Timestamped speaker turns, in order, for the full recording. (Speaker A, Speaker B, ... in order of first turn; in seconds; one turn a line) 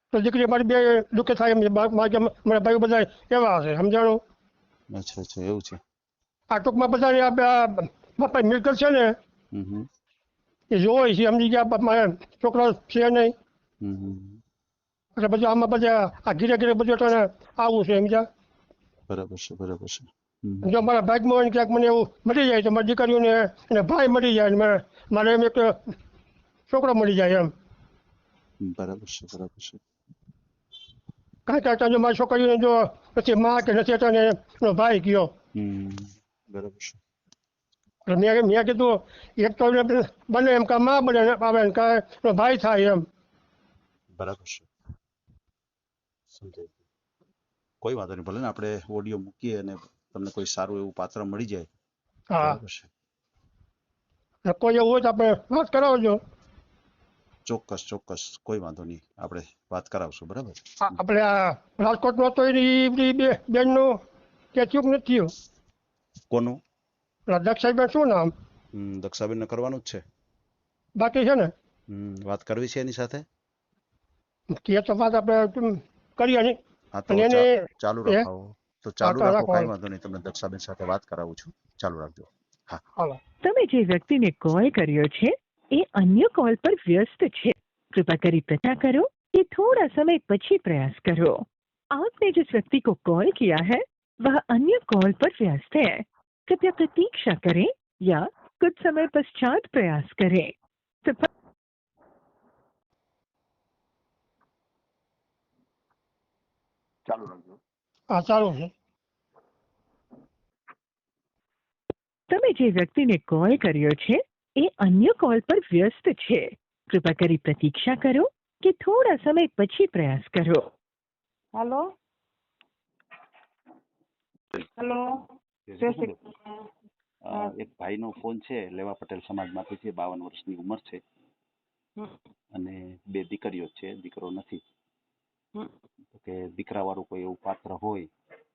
Speaker A: 0.1-4.2
Speaker B: 4.9-5.8
Speaker A: 6.5-9.1
Speaker B: 9.5-9.9
Speaker A: 10.7-13.3
Speaker B: 13.8-14.4
Speaker A: 15.2-18.2
Speaker B: 19.1-20.7
Speaker A: 20.6-25.9
Speaker A: 26.7-27.5
Speaker B: 28.6-29.8
Speaker A: 31.5-35.3
Speaker B: 35.5-37.0
Speaker A: 38.1-43.0
Speaker B: 44.2-44.7
Speaker B: 46.3-46.8
Speaker B: 47.8-51.7
Speaker A: 52.3-52.6
Speaker B: 52.4-52.9
Speaker A: 54.5-56.2
Speaker B: 57.5-61.0
Speaker A: 60.8-63.9
Speaker A: 64.5-65.3
Speaker B: 66.3-66.6
Speaker A: 67.3-68.3
Speaker B: 68.7-70.0
Speaker A: 71.0-71.5
Speaker B: 71.9-73.2
Speaker A: 74.5-76.6
Speaker B: 76.9-82.8
Speaker A: 77.1-78.2
Speaker A: 79.0-79.7
Speaker C: 83.4-100.5
Speaker B: 107.1-107.5
Speaker A: 108.1-108.7
Speaker C: 112.3-120.6
Speaker D: 121.5-121.9
Speaker D: 124.8-126.7
Speaker B: 125.7-126.2
Speaker B: 127.2-131.0
Speaker B: 132.5-134.6
Speaker B: 136.1-138.1